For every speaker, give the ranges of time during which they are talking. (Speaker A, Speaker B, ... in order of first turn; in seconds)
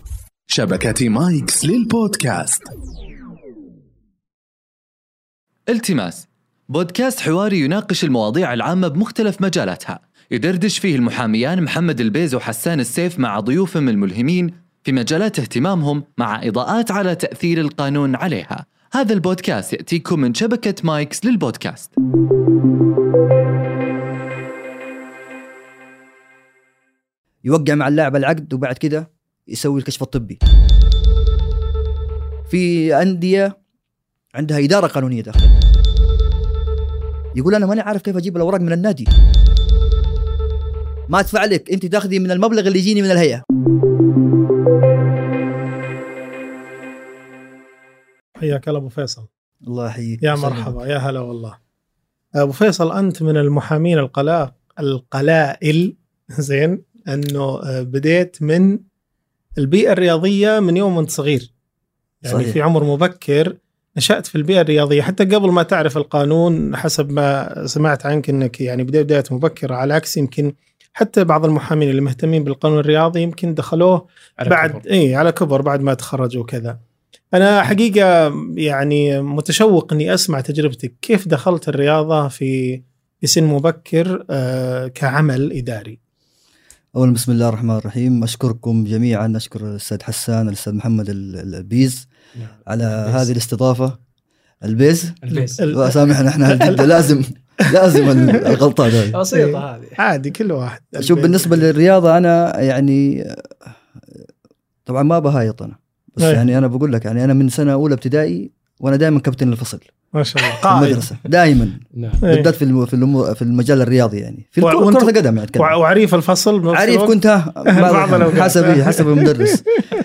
Speaker A: 0.5-2.7
Speaker B: 5.7-21.9
Speaker C: 27.5-30.4, 32.5-33.5, 34.4-35.6, 37.3-39.1, 41.1-43.4, 49.7-50.8, 62.3-62.6, 87.0-92.1, 92.7-94.0, 94.6-99.2, 101.0-103.5, 104.9-109.9, 110.7-115.7, 116.7-119.6
Speaker D: 48.4-49.3, 50.2-51.6, 52.4-58.8, 59.6-61.5, 62.2-76.8, 77.3-86.0, 95.3-97.0, 97.9-98.6, 99.3-101.7, 110.1-111.0, 112.2-112.5, 114.6-119.9
Speaker E: 74.4-74.8, 92.4-93.3, 95.2-95.7, 99.1-100.0, 111.9-112.2